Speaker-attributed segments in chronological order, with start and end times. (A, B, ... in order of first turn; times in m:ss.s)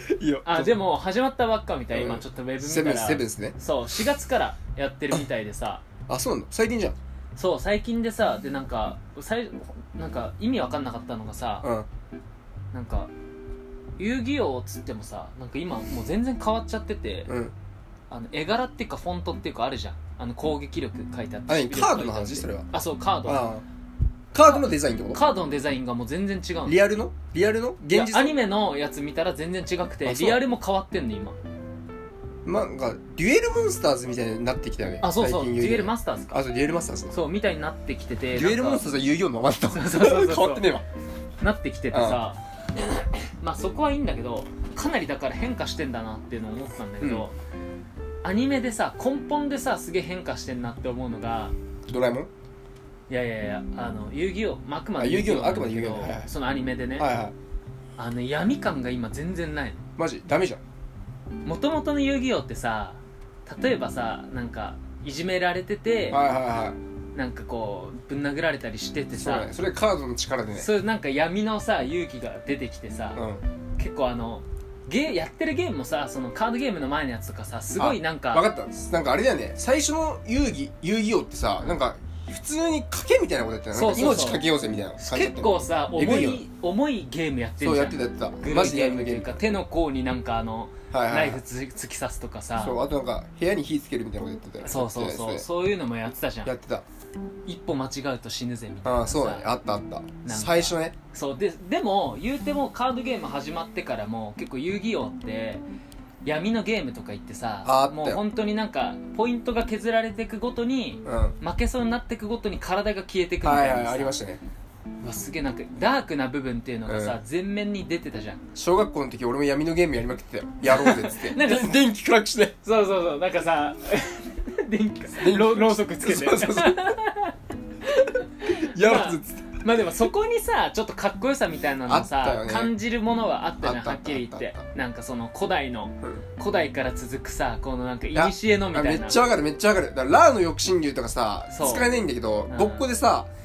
0:00.2-0:00.8 A
0:00.4-0:05.8 B
0:01.9-0:03.6 A
0:06.1-0:07.0 A
0:07.4-0:11.7 B
0:11.6-0:11.9 A
0:12.7-0:13.1 B
0:14.0-0:17.3 B
0:17.3-0:17.5 A
0:18.1-0:23.5 B
0:21.5-0:22.7 A
0:23.2-0:23.6 A
0:24.3-0:25.2 A
0:24.4-0:26.8 B
0:26.6-0:28.4 A
0:27.9-0:31.4 B
0:30.0-0:30.4 A
0:32.4-0:37.2 A
0:35.0-0:36.4 B
0:37.1-0:38.8 B
0:38.3-0:40.9 A
0:39.7-0:40.7 B
0:41.4-0:47.3 B
0:41.9-0:42.2 A
0:47.0-0:47.3 A
0:48.2-0:51.6 B
0:51.9-0:52.3 A
0:53.1-0:57.1 B
0:55.0-0:56.3 A
0:57.0-0:57.4 A
0:58.0-0:59.8 B
1:00.0-1:00.6 A
1:01.4-1:06.2 B
1:06.1-1:06.8 A
1:07.1-1:09.5 B
1:09.1-1:10.7 A
1:10.5-1:13.2 B
1:13.1-1:13.4 A
1:13.8-1:18.5 B
1:17.8-1:26.4 A
1:23.7-1:24.4 B
1:25.0-1:32.8 B
1:27.6-1:29.4 A
1:30.9-1:31.4 A
1:32.6-1:35.5 A
1:34.6-1:36.5 B
1:36.4-1:36.8 A
1:37.5-1:39.5 B
1:38.8-1:41.0 A
1:40.2-1:45.6 B
1:46.2-1:54.2 B
1:47.6-1:48.2 A
1:51.0-1:51.4 A
1:53.4-1:54.4 A
1:55.0-1:58.4 B
1:56.9-1:57.2 A
1:58.6-2:02.6 A
2:00.7-2:01.8 B
2:02.6-2:07.3 B
2:05.2-2:06.9 A
2:07.9-2:19.2 B
2:08.5-2:09.6 A
2:11.9-2:12.7 A
2:13.6-2:14.7 A
2:18.1-2:23.3 A
2:21.5-2:21.9 B
2:22.5-2:22.9 B